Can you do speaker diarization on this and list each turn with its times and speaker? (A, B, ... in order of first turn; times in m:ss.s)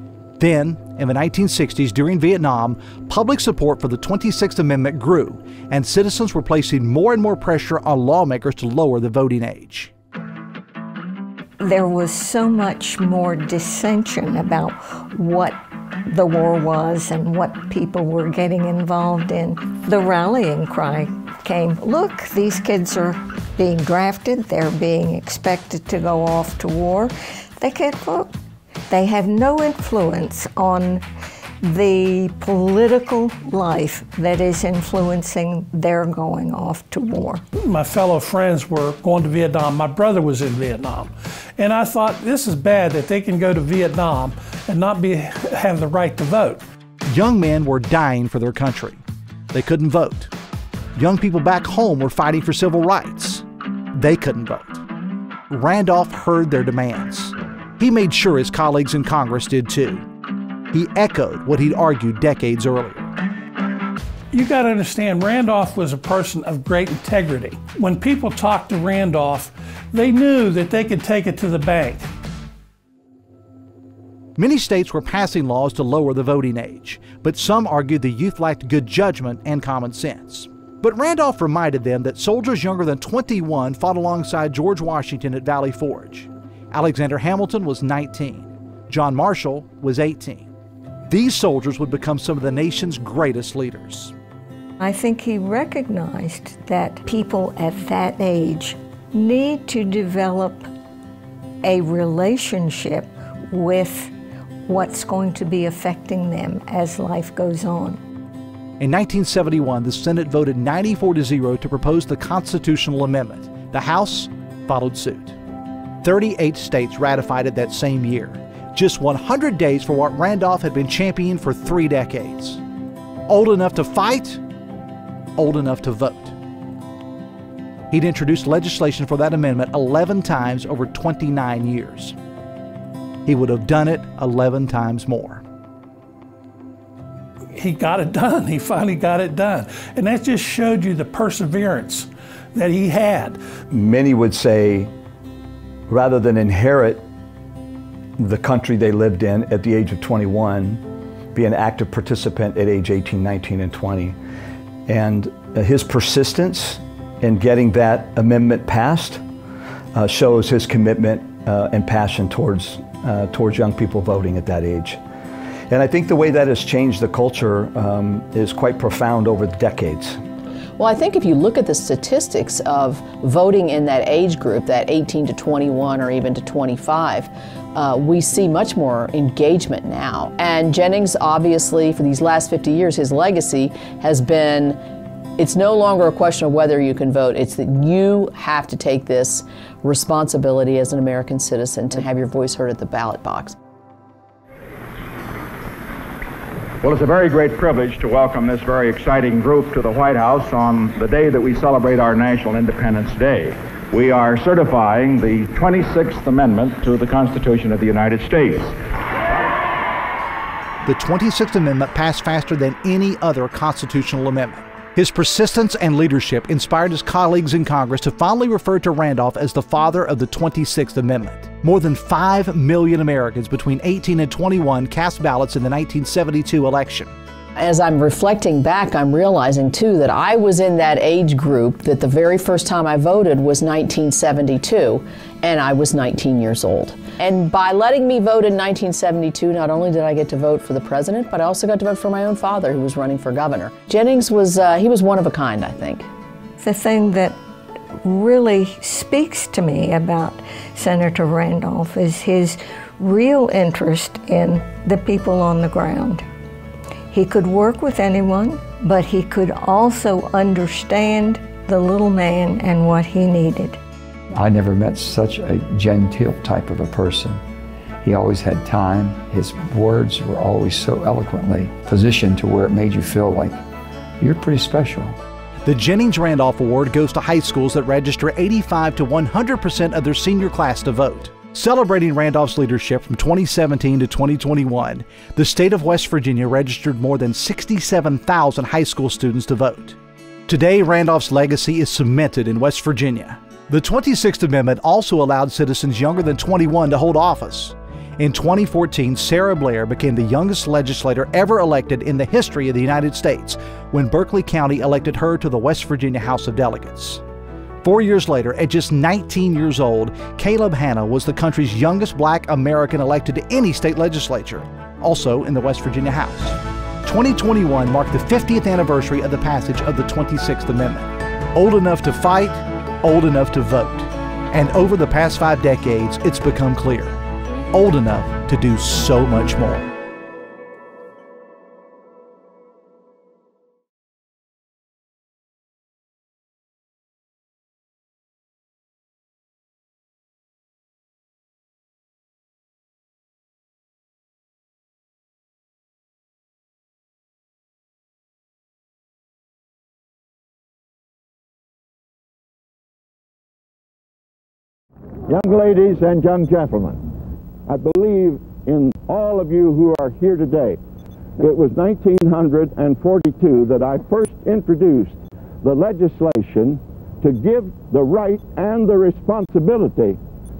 0:00.4-0:09.9 A
0:11.6-0:28.3 B
0:28.9-0:31.0 B
0:31.6-0:37.4 B
0:37.6-0:46.6 C
0:47.1-0:50.3 A
0:51.0-0:54.8 A
0:55.5-1:00.0 A
1:00.7-1:03.1 A
1:04.3-1:12.1 C
1:14.4-1:30.5 A
1:31.1-1:34.1 A
1:34.8-1:40.7 B
1:41.6-1:44.1 B
1:44.6-1:48.0 B
1:48.8-1:55.4 A
1:56.0-2:02.6 A
2:03.3-2:04.4 A
2:05.4-2:06.3 A
2:07.9-2:12.2 A
2:13.2-2:15.4 A
2:17.6-2:23.4 C
2:23.7-2:24.9 D
2:25.9-2:27.0 D
2:28.2-2:30.8 D
2:31.3-2:34.2 D
2:34.9-2:39.2 D
2:39.9-2:45.0 D
2:45.7-2:50.2 D
2:50.8-3:04.8 E
3:05.4-3:13.5 E
3:16.8-3:28.7 F
3:30.8-3:47.1 A
3:47.6-4:06.1 E
4:06.6-4:07.4 B
4:08.0-4:16.2 B
4:17.1-4:23.8 B
4:24.3-4:27.4 G
4:28.0-4:33.6 G
4:34.2-4:35.2 G
4:35.6-4:50.0 A
4:50.5-5:07.2 A
5:07.8-5:27.2 A
5:27.7-5:29.9 A
5:55.3-5:57.0 H
5:57.7-6:00.8 H
6:01.4-6:10.2 H